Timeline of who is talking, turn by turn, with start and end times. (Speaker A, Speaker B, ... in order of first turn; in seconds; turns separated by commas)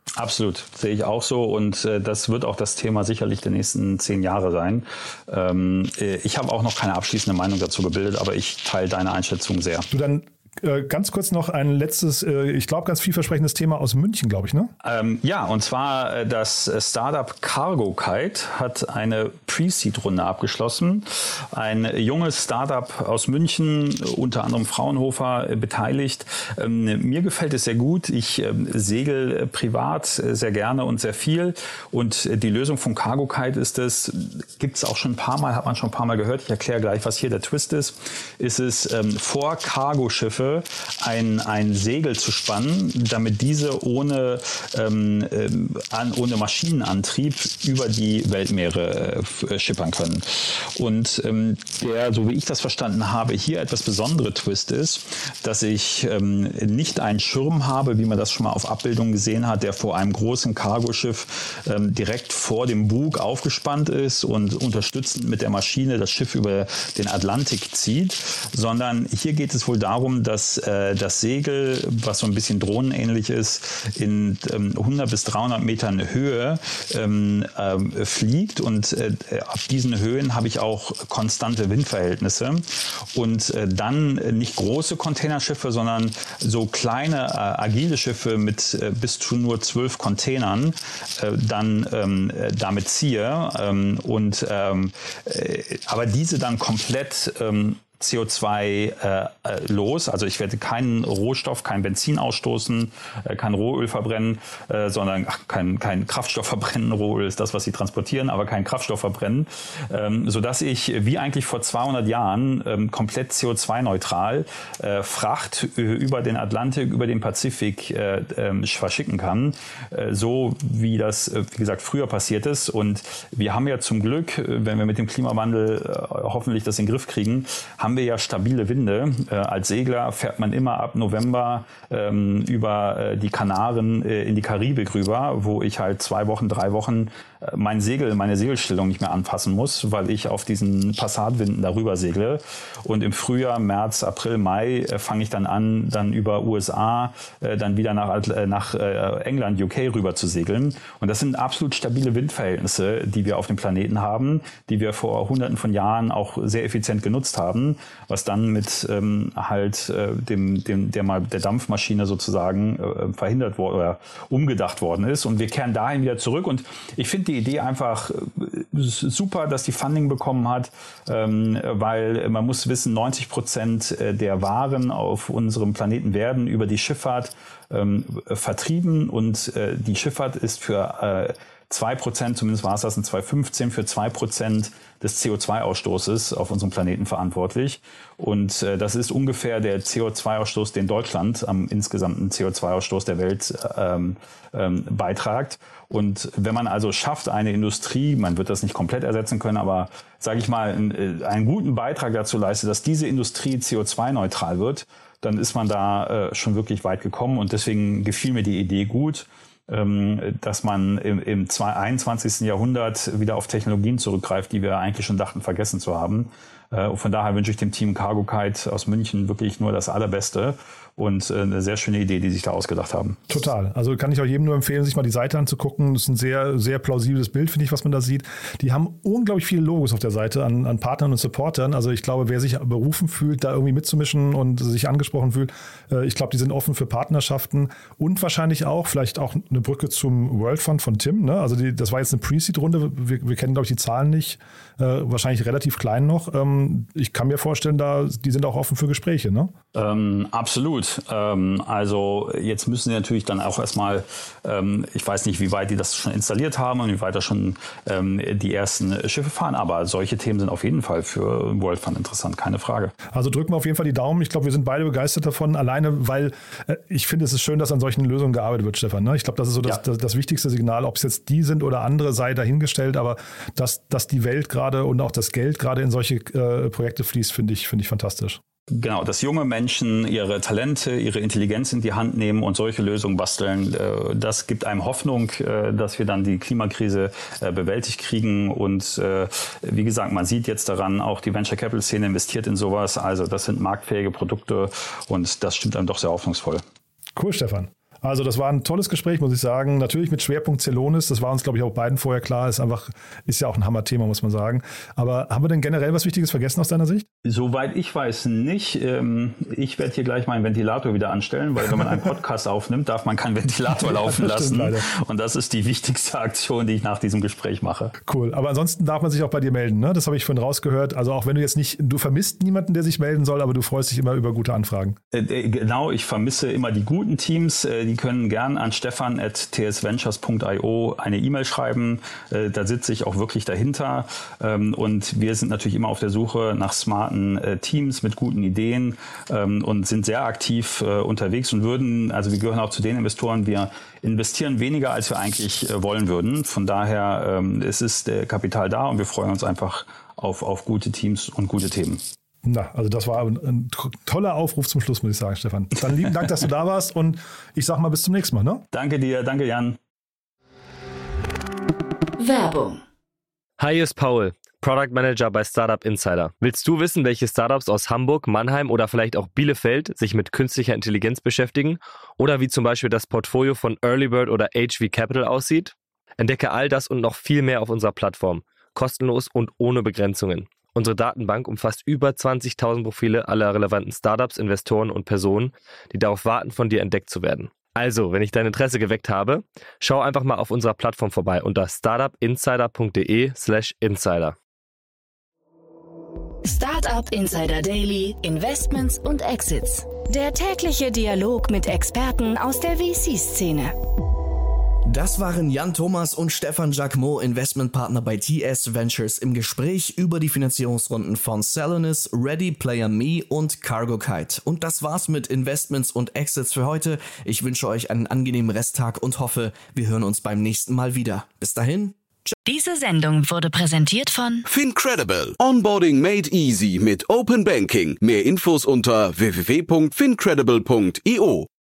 Speaker A: 0.1-9.9, Speaker B: 9.9-14.7, Speaker A: 14.8-223.3, Speaker B: 223.3-249.5, Speaker A: 249.7-262.9, Speaker B: 263.1-278.4, Speaker A: 278.7-296.6, Speaker B: 297.1-307.1, Speaker A: 307.2-317.9, Speaker B: 313.7-314.9, Speaker B: 318.0-325.0, Speaker A: 325.1-352.0, Speaker B: 352.4-358.6, Speaker A: 358.7-359.8, Speaker C: 362.2-362.8, Speaker D: 363.6-394.4, Speaker C: 396.4-403.7, Speaker E: 404.9-422.3, Speaker C: 422.4-424.4, Speaker F: 424.4-431.5